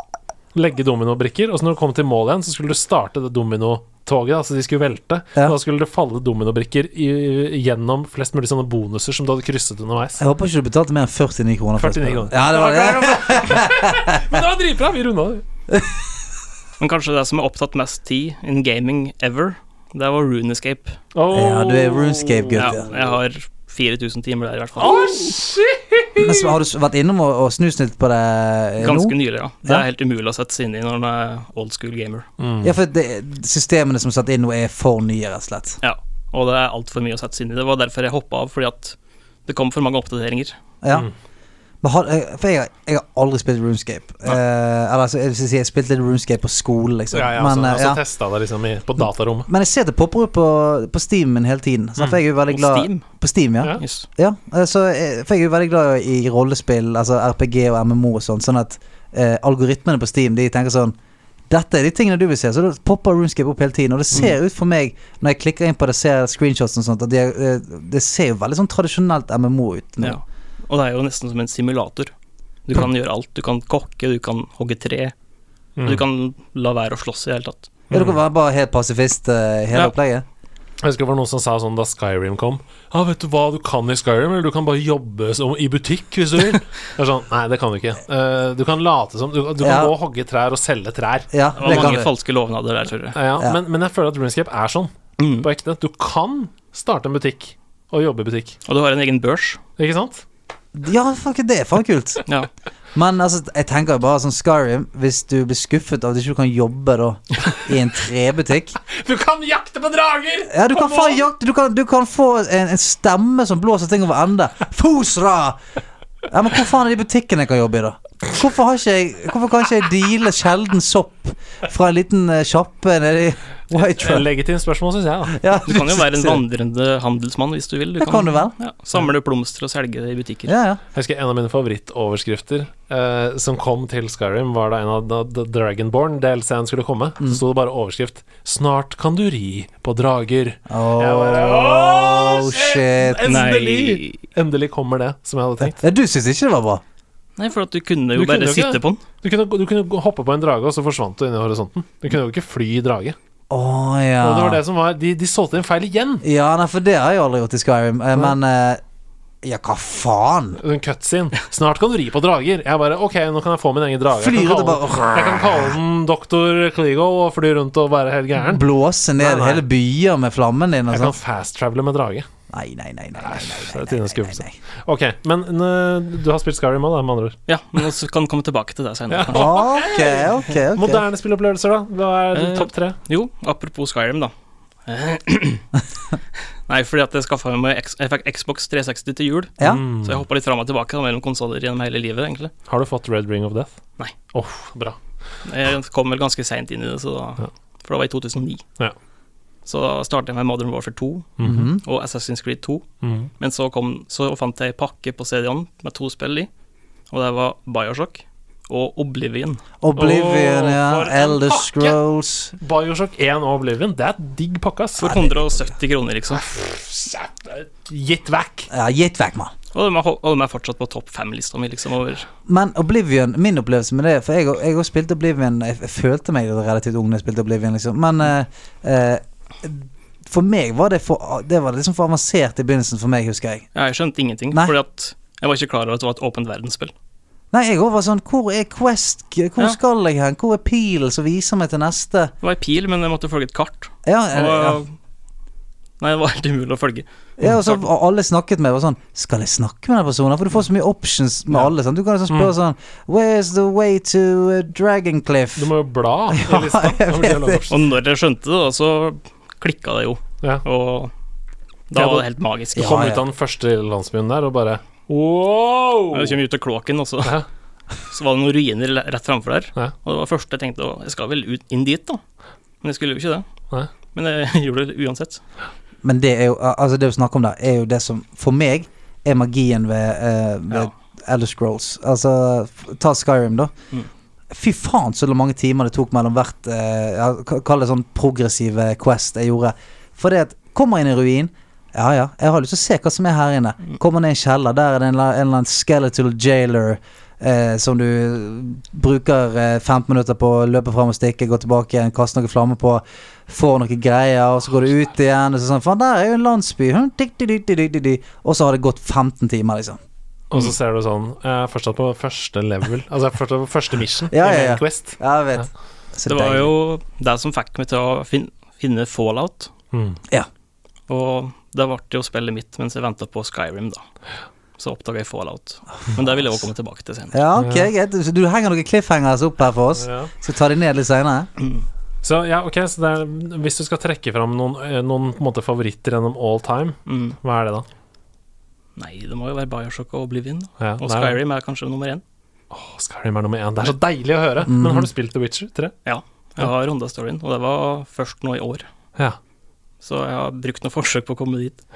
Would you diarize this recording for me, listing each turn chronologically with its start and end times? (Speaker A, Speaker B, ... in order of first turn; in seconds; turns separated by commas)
Speaker A: 0.5-10.2, Speaker B: 10.2-14.2, Speaker A: 11.8-15.4, Speaker B: 15.7-16.0, Speaker C: 16.8-21.0, Speaker A: 21.1-23.1, Speaker B: 21.3-22.9, Speaker C: 22.6-25.2, Speaker A: 24.8-26.5, Speaker B: 26.2-29.8, Speaker C: 28.8-32.2, Speaker A: 32.4-32.7, Speaker B: 32.6-35.8, Speaker C: 35.8-40.5, Speaker B: 40.8-41.1, Speaker B: 41.8-48.0, Speaker A: 47.1-49.5, Speaker B: 49.5-60.9, Speaker C: 52.5-53.0, Speaker C: 53.8-54.0, Speaker B: 61.5-70.2, Speaker C: 70.0-72.1, Speaker C: 72.7-75.1, Speaker A: 75.8-76.0, Speaker C: 75.8-77.7, Speaker A: 77.9-78.2, Speaker B: 77.9-80.2, Speaker A: 80.8-91.9, Speaker B: 89.6-89.9, Speaker B: 91.3-92.1, Speaker C: 91.6-93.2, Speaker A: 93.1-98.5, Speaker C: 95.2-95.5, Speaker C: 98.7-99.6, Speaker A: 99.8-100.2, Speaker B: 100.7-102.2, Speaker B: 102.9-108.8, Speaker A: 108.9-111.2, Speaker B: 110.5-115.6, Speaker B: 116.3-124.3, Speaker A: 123.8-125.4, Speaker B: 125.3-126.4, Speaker C: 125.6-130.5, Speaker B: 128.0-128.5, Speaker B: 130.5-130.8, Speaker A: 130.9-145.8, Speaker B: 140.7-143.2, Speaker C: 143.2-144.2, Speaker B: 145.6-146.8, Speaker C: 147.4-149.0, Speaker A: 148.1-153.2, Speaker B: 153.5-154.6, Speaker A: 154.2-156.2, Speaker B: 156.2-158.8, Speaker B: 159.4-160.6, Speaker A: 160.6-168.7, Speaker B: 164.1-165.8, Speaker B: 168.4-171.2, Speaker A: 169.2-169.6, Speaker A: 170.9-172.2, Speaker B: 172.5-174.5, Speaker A: 173.2-177.3, Speaker C: 177.5-179.6, Speaker A: 179.1-183.0, Speaker B: 179.3-181.0, Speaker C: 182.3-184.3, Speaker C: 184.9-185.6, Speaker C: 186.7-192.5, Speaker B: 189.6-189.8, Speaker A: 189.6-190.2, Speaker A: 192.7-193.7, Speaker A: 194.3-195.0, Speaker C: 195.4-198.6, Speaker C: 199.7-201.3, Speaker A: 201.4-201.7, Speaker B: 201.4-201.8, Speaker C: 201.8-202.8, Speaker A: 203.0-203.3, Speaker C: 203.4-206.5, Speaker C: 207.1-209.6, Speaker B: 209.8-212.5, Speaker A: 209.9-212.0, Speaker A: 212.6-215.1, Speaker C: 215.0-216.4, Speaker B: 215.0-215.5, Speaker A: 216.3-218.7, Speaker B: 218.7-219.5, Speaker C: 219.7-222.3, Speaker B: 222.5-233.7, Speaker C: 233.7-236.9, Speaker B: 237.5-242.3, Speaker C: 242.4-244.9, Speaker B: 244.1-244.8, Speaker C: 246.0-247.8, Speaker B: 247.4-255.7, Speaker A: 255.6-257.9, Speaker B: 256.3-257.6, Speaker C: 257.7-261.1, Speaker C: 261.9-263.0, Speaker A: 261.9-266.4, Speaker B: 262.7-263.2, Speaker C: 266.1-267.4, Speaker C: 268.1-272.2, Speaker C: 272.8-273.4, Speaker C: 274.1-275.4, Speaker B: 276.0-283.7, Speaker B: 284.5-310.0, Speaker A: 310.5-315.6, Speaker B: 314.3-316.7, Speaker C: 316.2-319.7, Speaker A: 319.9-320.2, Speaker C: 321.1-324.0, Speaker C: 324.8-327.4, Speaker B: 326.1-326.6, Speaker B: 327.3-331.5, Speaker A: 327.6-327.9, Speaker A: 330.0-330.3, Speaker C: 331.6-331.9, Speaker A: 332.2-337.9, Speaker C: 337.1-337.4, Speaker C: 338.9-342.2, Speaker A: 340.8-341.4, Speaker A: 342.7-345.9, Speaker B: 344.6-345.1, Speaker C: 346.0-348.9, Speaker C: 350.0-351.8